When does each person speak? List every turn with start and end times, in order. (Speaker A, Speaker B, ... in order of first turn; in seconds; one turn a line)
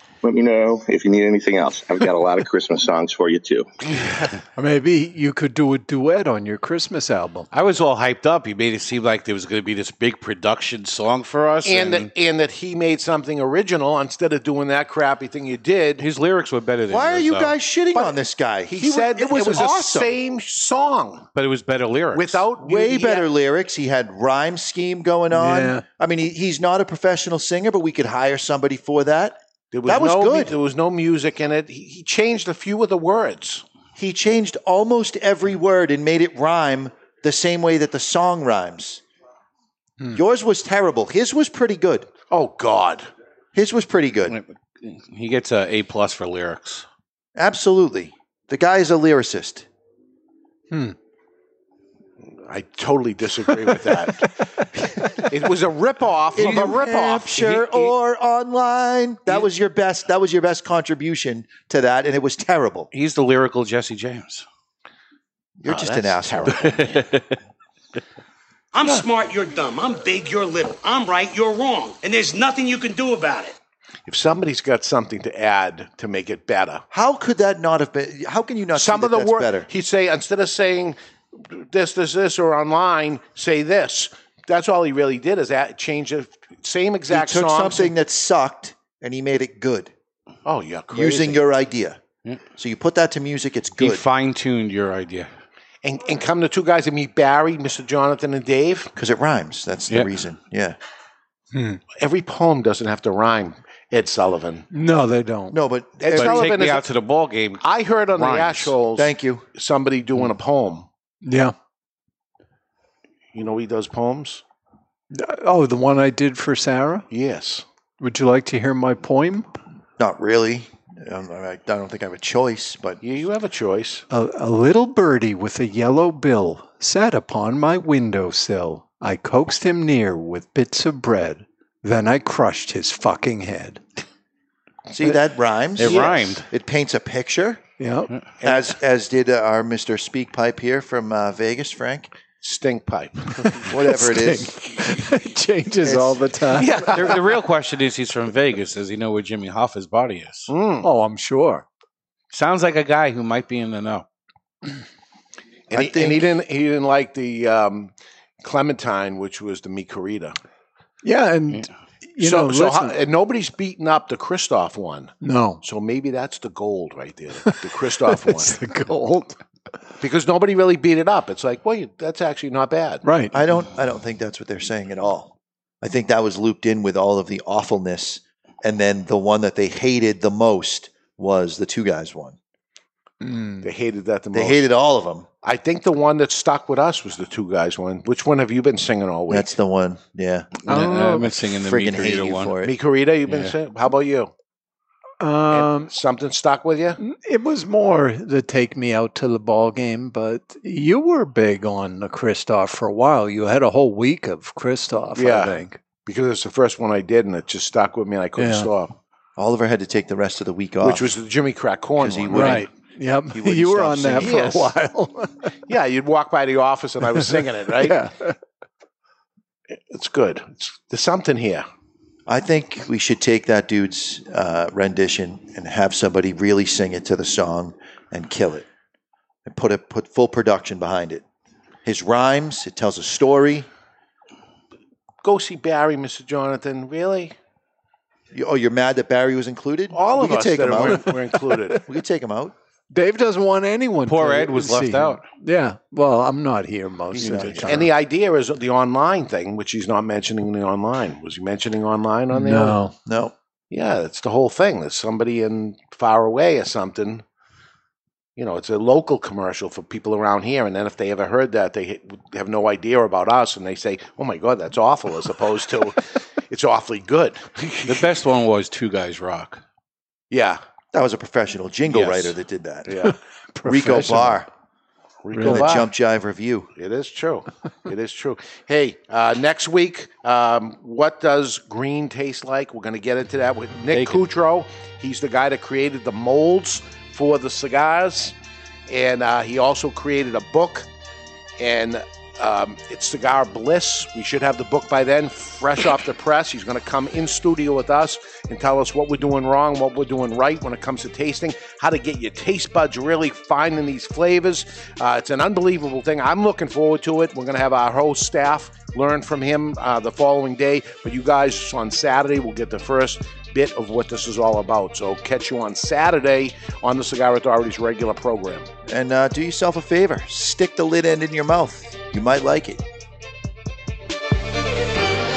Speaker A: 0.2-3.7
Speaker B: 4.0-4.3
Speaker C: 4.6-7.5
Speaker D: 7.5-12.1
Speaker B: 11.7-16.1
Speaker D: 16.0-17.5
Speaker E: 16.9-20.1
Speaker B: 17.9-21.3
Speaker D: 21.4-22.5
Speaker B: 22.1-23.3
Speaker E: 22.6-30.6
Speaker C: 25.3-25.8
Speaker B: 29.7-33.6
Speaker E: 34.0-39.0
Speaker E: 40.1-42.1
Speaker B: 42.3-43.1
Speaker E: 43.5-44.4
Speaker D: 44.3-46.9
Speaker E: 47.4-49.7
Speaker B: 52.4-54.4
Speaker B: 55.3-57.9
Speaker E: 56.4-62.9
Speaker D: 62.9-64.5
Speaker E: 65.6-66.8
Speaker B: 65.7-67.1
Speaker D: 66.5-67.3
Speaker F: 68.7-73.6
Speaker B: 74.1-76.8
Speaker E: 76.9-79.7
Speaker B: 78.8-87.9
Speaker E: 87.1-89.9
Speaker B: 90.5-91.4
Speaker E: 90.9-92.0
Speaker E: 92.6-94.0
Speaker D: 93.8-95.3
Speaker B: 95.8-98.9
Speaker E: 99.0-100.8
Speaker C: 101.5-101.8
Speaker B: 102.0-104.7
Speaker C: 104.7-105.6
Speaker E: 105.5-106.5
Speaker B: 106.0-106.9
Speaker D: 106.1-108.8
Speaker B: 107.6-110.9
Speaker E: 109.0-109.5
Speaker C: 111.2-111.5
Speaker B: 113.3-114.4
Speaker C: 115.1-117.1
Speaker B: 117.1-117.7
Speaker C: 118.0-119.5
Speaker E: 120.0-123.0
Speaker B: 123.0-124.0
Speaker C: 124.1-133.8
Speaker E: 134.9-137.7
Speaker D: 135.8-136.5
Speaker C: 137.8-138.2
Speaker E: 138.4-142.1
Speaker B: 142.4-143.7
Speaker C: 143.4-147.0
Speaker E: 143.7-144.5
Speaker E: 145.8-146.3
Speaker B: 146.5-147.3
Speaker D: 146.9-150.5
Speaker B: 150.5-150.9
Speaker C: 150.8-151.7
Speaker D: 152.3-154.1
Speaker B: 155.7-160.4
Speaker E: 155.7-156.3
Speaker C: 161.0-163.0
Speaker B: 162.2-168.5
Speaker C: 165.2-165.6
Speaker C: 167.4-169.4
Speaker B: 170.0-173.1
Speaker C: 173.0-173.4
Speaker E: 173.3-182.4
Speaker C: 183.2-183.7
Speaker B: 183.6-184.7
Speaker E: 184.3-185.3
Speaker B: 185.4-189.5
Speaker E: 189.3-190.6
Speaker D: 190.7-192.6
Speaker C: 190.7-191.2
Speaker B: 190.7-191.2
Speaker E: 191.5-192.8
Speaker B: 192.6-194.3
Speaker D: 193.3-193.6
Speaker C: 195.2-195.9
Speaker B: 195.5-197.0
Speaker C: 197.0-205.8
Speaker B: 205.2-208.9
Speaker C: 208.4-208.7
Speaker E: 209.4-211.2
Speaker B: 210.8-212.7
Speaker E: 212.0-212.8
Speaker C: 212.3-215.5
Speaker E: 213.3-214.5
Speaker B: 214.2-214.7
Speaker B: 215.7-218.0
Speaker C: 217.2-218.4
Speaker B: 219.8-221.6
Speaker E: 222.3-228.7
Speaker E: 229.4-231.2
Speaker E: 231.8-233.7
Speaker B: 235.2-237.4
Speaker E: 238.3-242.5
Speaker B: 239.9-241.8
Speaker C: 242.9-247.8
Speaker D: 244.1-245.2
Speaker E: 247.1-247.9
Speaker B: 247.5-252.8
Speaker C: 252.3-252.9
Speaker E: 253.1-253.3
Speaker B: 253.7-257.2
Speaker B: 258.4-268.1
Speaker D: 267.9-269.6
Speaker B: 270.3-270.6
Speaker E: 270.9-273.0
Speaker B: 271.9-272.4
Speaker B: 272.9-273.1
Speaker C: 273.0-274.4
Speaker E: 273.7-274.5
Speaker B: 273.9-274.1
Speaker B: 275.2-275.9
Speaker C: 275.3-275.8
Speaker E: 275.5-276.7
Speaker B: 276.8-288.4
Speaker D: 283.9-284.2
Speaker B: 288.9-290.9
Speaker B: 291.6-318.7
Speaker E: 318.9-322.8